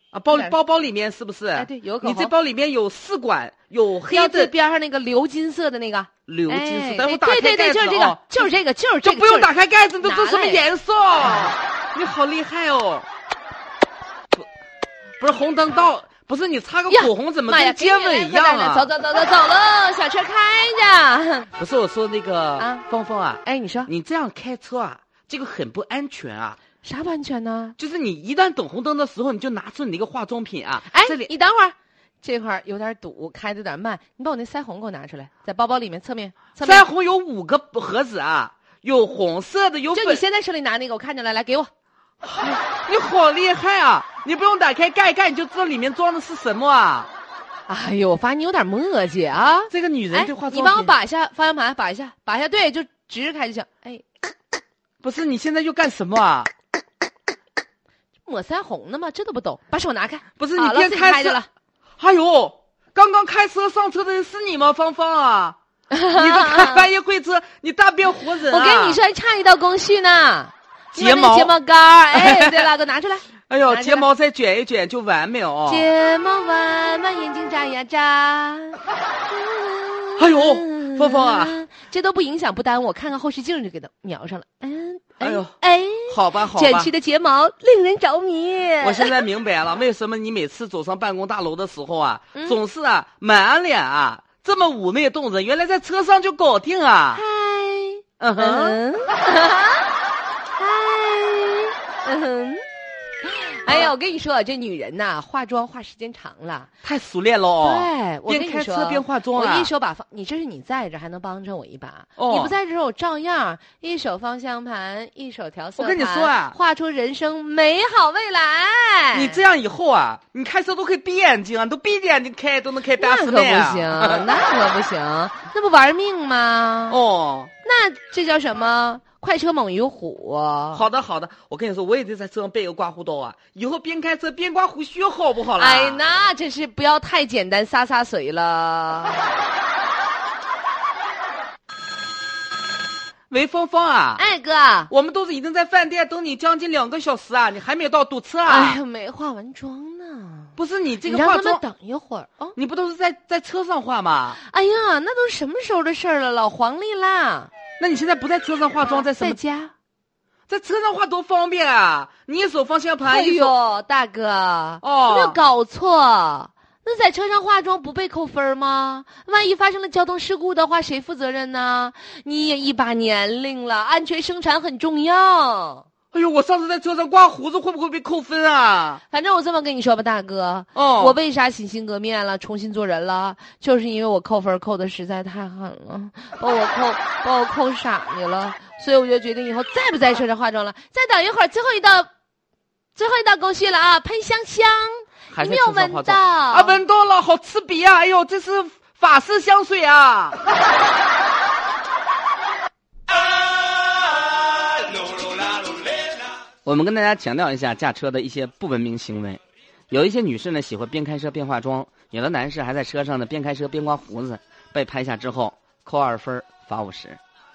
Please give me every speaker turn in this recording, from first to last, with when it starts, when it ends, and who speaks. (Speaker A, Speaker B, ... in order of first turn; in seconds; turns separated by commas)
Speaker A: 0.1-4.5, Speaker B: 0.3-0.6, Speaker B: 1.6-2.3, Speaker B: 4.1-9.5, Speaker A: 6.3-8.5, Speaker A: 9.0-13.1, Speaker B: 10.0-10.6, Speaker A: 15.2-18.9, Speaker B: 16.9-21.5, Speaker A: 21.6-26.6, Speaker B: 22.6-22.9, Speaker B: 23.4-23.9, Speaker B: 26.8-27.8, Speaker A: 27.8-31.3, Speaker B: 30.9-36.9, Speaker A: 36.6-40.2, Speaker B: 39.9-41.7, Speaker A: 42.2-47.1, Speaker B: 47.7-54.0, Speaker A: 49.7-50.9, Speaker A: 55.0-56.5, Speaker B: 58.3-61.5, Speaker A: 60.4-61.4, Speaker A: 62.0-65.6, Speaker B: 65.9-66.9, Speaker A: 66.1-69.0, Speaker B: 68.4-74.1, Speaker A: 70.9-71.5, Speaker A: 72.1-72.7, Speaker A: 73.5-75.9, Speaker B: 75.7-89.2, Speaker A: 80.2-81.6, Speaker A: 85.2-85.5, Speaker A: 86.1-86.9, Speaker A: 88.8-97.2, Speaker B: 97.1-99.9, Speaker A: 98.2-98.8, Speaker B: 100.6-102.6, Speaker B: 103.2-106.7, Speaker A: 106.8-109.7, Speaker B: 107.6-119.4, Speaker A: 112.2-112.5, Speaker A: 115.8-116.6, Speaker A: 119.1-124.4, Speaker B: 123.0-127.0, Speaker A: 126.9-127.5, Speaker B: 127.6-130.8, Speaker A: 130.7-136.0, Speaker B: 135.6-139.3, Speaker A: 143.3-144.2, Speaker B: 144.2-144.9, Speaker A: 144.9-148.8, Speaker B: 148.5-152.6, Speaker A: 150.6-151.6, Speaker A: 152.6-154.4, Speaker B: 154.4-157.5, Speaker A: 157.8-159.4, Speaker B: 158.8-159.7, Speaker A: 160.5-163.6, Speaker B: 163.1-175.8, Speaker A: 164.8-165.4, Speaker A: 176.1-179.0, Speaker B: 179.1-192.1, Speaker A: 180.8-181.2, Speaker B: 192.9-196.8, Speaker A: 195.3-200.4, Speaker A: 206.6-209.4, Speaker A: 209.9-217.2